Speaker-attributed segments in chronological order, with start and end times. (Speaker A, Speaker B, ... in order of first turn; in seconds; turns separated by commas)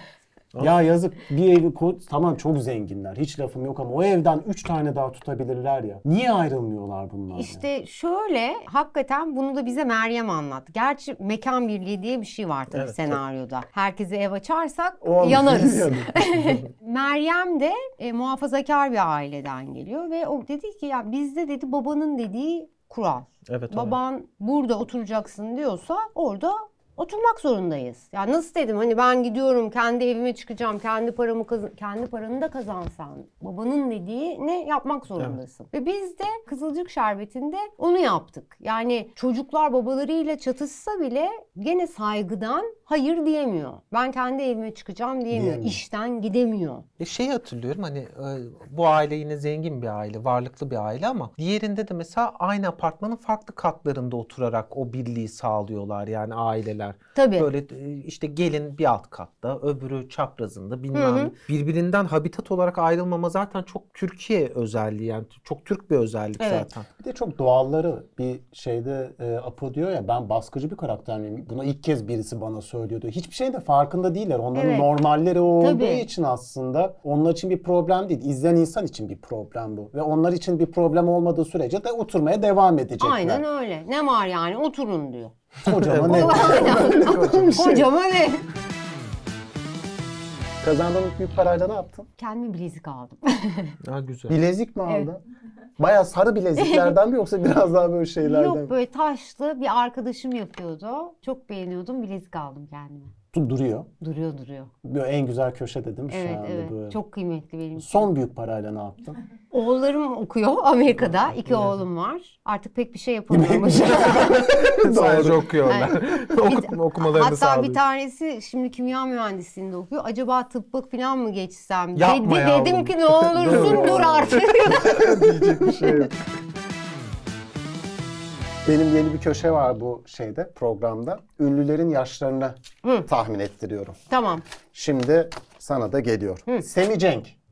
Speaker A: 0.6-7.6, Speaker B: 7.3-46.9, Speaker C: 12.7-13.2, Speaker A: 15.0-16.2, Speaker C: 23.5-24.0, Speaker A: 45.3-45.8, Speaker C: 47.0-66.9, Speaker B: 57.1-57.5, Speaker B: 60.9-61.3, Speaker B: 66.4-66.7, Speaker A: 67.0-83.4, Speaker B: 74.5-74.9, Speaker B: 75.6-76.1, Speaker B: 83.0-85.3, Speaker A: 85.6-87.9, Speaker C: 85.7-87.7, Speaker B: 86.0-88.5, Speaker A: 90.6-92.1, Speaker B: 92.2-93.7, Speaker C: 93.8-94.4, Speaker A: 94.3-95.2, Speaker A: 95.8-98.7, Speaker B: 96.6-96.9, Speaker B: 98.2-103.1, Speaker A: 103.3-103.9, Speaker B: 104.0-104.7, Speaker A: 104.8-107.0, Speaker B: 106.1-108.1, Speaker A: 107.8-109.2, Speaker B: 109.5-114.4, Speaker C: 111.4-111.8, Speaker A: 113.3-115.5, Speaker C: 114.4-117.8, Speaker B: 115.7-125.1, Speaker C: 122.0-126.1, Speaker A: 123.4-126.1, Speaker A: 128.6-134.0, Speaker B: 134.1-134.4, Speaker A: 134.7-137.3